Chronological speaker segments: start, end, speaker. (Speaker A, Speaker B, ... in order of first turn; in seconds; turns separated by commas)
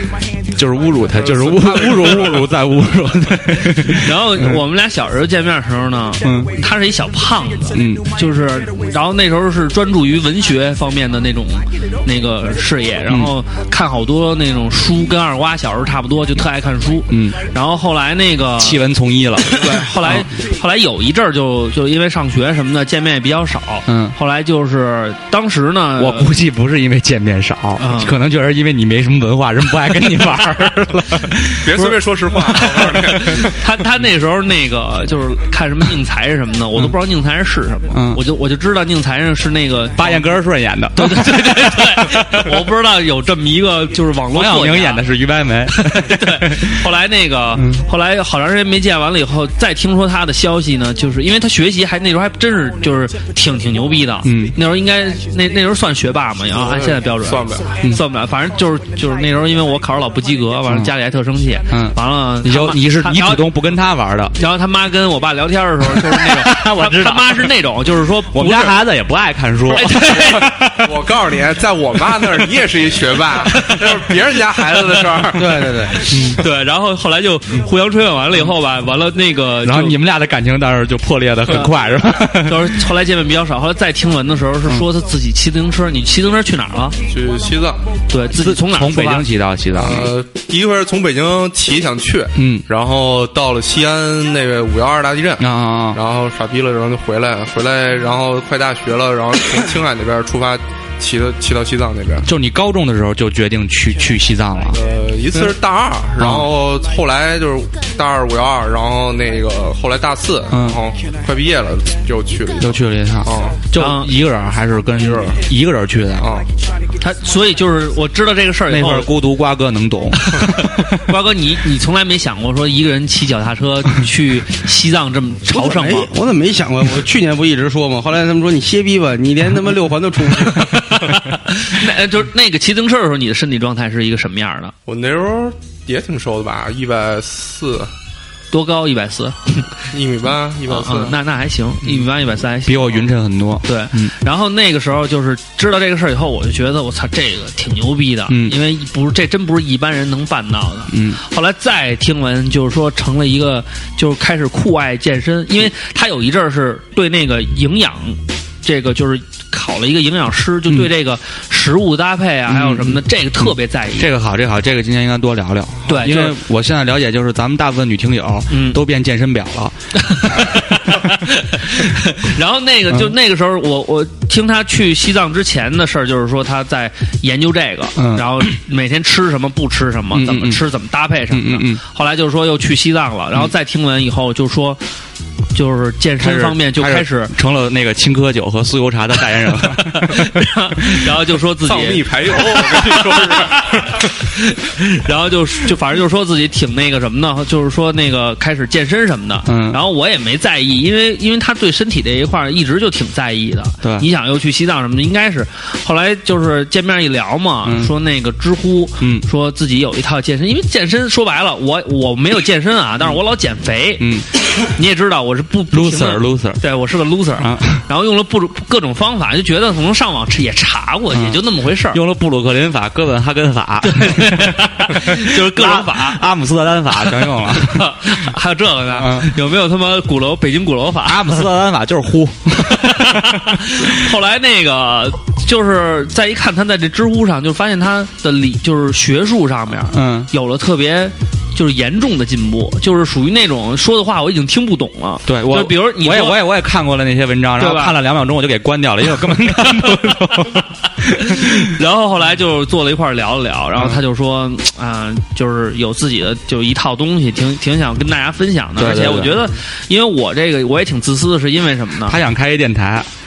Speaker A: 0.5-4.6, Speaker B: 1.1-2.6, Speaker C: 3.8-26.3, Speaker A: 6.2-6.5, Speaker A: 7.7-8.1, Speaker A: 17.1-17.4, Speaker A: 18.6-20.3, Speaker A: 23.9-24.2, Speaker A: 26.0-31.9, Speaker C: 27.8-28.2, Speaker B: 31.6-33.6, Speaker A: 32.5-33.0, Speaker C: 32.8-40.4, Speaker A: 37.9-38.2, Speaker A: 40.0-42.5, Speaker C: 41.0-45.1, Speaker A: 44.3-46.7, Speaker C: 45.7-63.5, Speaker A: 47.6-47.8, Speaker A: 54.2-54.6, Speaker B: 56.5-57.7, Speaker A: 61.7-64.3, Speaker C: 64.3-68.8, Speaker A: 65.9-67.5, Speaker A: 68.3-70.9, Speaker C: 69.7-70.6, Speaker B: 70.5-76.3, Speaker C: 73.5-73.9, Speaker D: 75.3-76.1, Speaker A: 76.1-76.4, Speaker C: 76.4-80.0, Speaker A: 79.7-82.7, Speaker C: 81.5-87.0, Speaker B: 87.1-87.8, Speaker C: 88.1-89.3, Speaker A: 88.3-90.1, Speaker B: 89.7-102.3, Speaker A: 92.4-92.7, Speaker A: 95.4-96.0, Speaker A: 102.2-104.8, Speaker B: 104.7-113.7, Speaker A: 106.2-106.5, Speaker A: 110.5-110.8, Speaker A: 112.6-116.3, Speaker C: 113.7-114.2, Speaker B: 115.0-115.4, Speaker B: 116.2-116.5, Speaker C: 117.0-119.1, Speaker A: 118.7-121.0, Speaker C: 120.2-126.1, Speaker D: 125.5-130.8, Speaker C: 130.5-134.7, Speaker B: 134.9-137.9, Speaker C: 138.5-139.7, Speaker B: 139.9-141.2, Speaker C: 140.7-143.1, Speaker A: 142.7-144.1, Speaker C: 143.6-164.1, Speaker A: 148.3-148.6, Speaker A: 150.9-151.2, Speaker A: 162.5-171.1, Speaker C: 165.9-166.4, Speaker C: 168.5-168.8, Speaker C: 169.9-184.8, Speaker A: 178.0-178.6, Speaker A: 180.1-180.7, Speaker A: 181.3-181.8, Speaker C: 185.6-187.3, Speaker A: 186.2-191.0, Speaker C: 189.7-214.1, Speaker B: 191.7-194.2, Speaker A: 199.5-199.8, Speaker A: 207.6-207.9, Speaker A: 209.0-209.3, Speaker A: 214.0-214.3, Speaker C: 214.6-222.0, Speaker A: 215.7-216.6, Speaker A: 217.4-217.8, Speaker A: 221.1-221.4, Speaker A: 221.9-227.9, Speaker C: 223.8-226.2, Speaker C: 227.1-231.5, Speaker A: 228.9-229.3, Speaker A: 231.1-233.9, Speaker C: 232.6-246.5, Speaker A: 239.9-240.3, Speaker A: 245.3-251.7, Speaker C: 247.6-248.0, Speaker C: 249.6-250.4, Speaker C: 251.2-262.2, Speaker A: 258.8-259.5, Speaker A: 262.1-263.1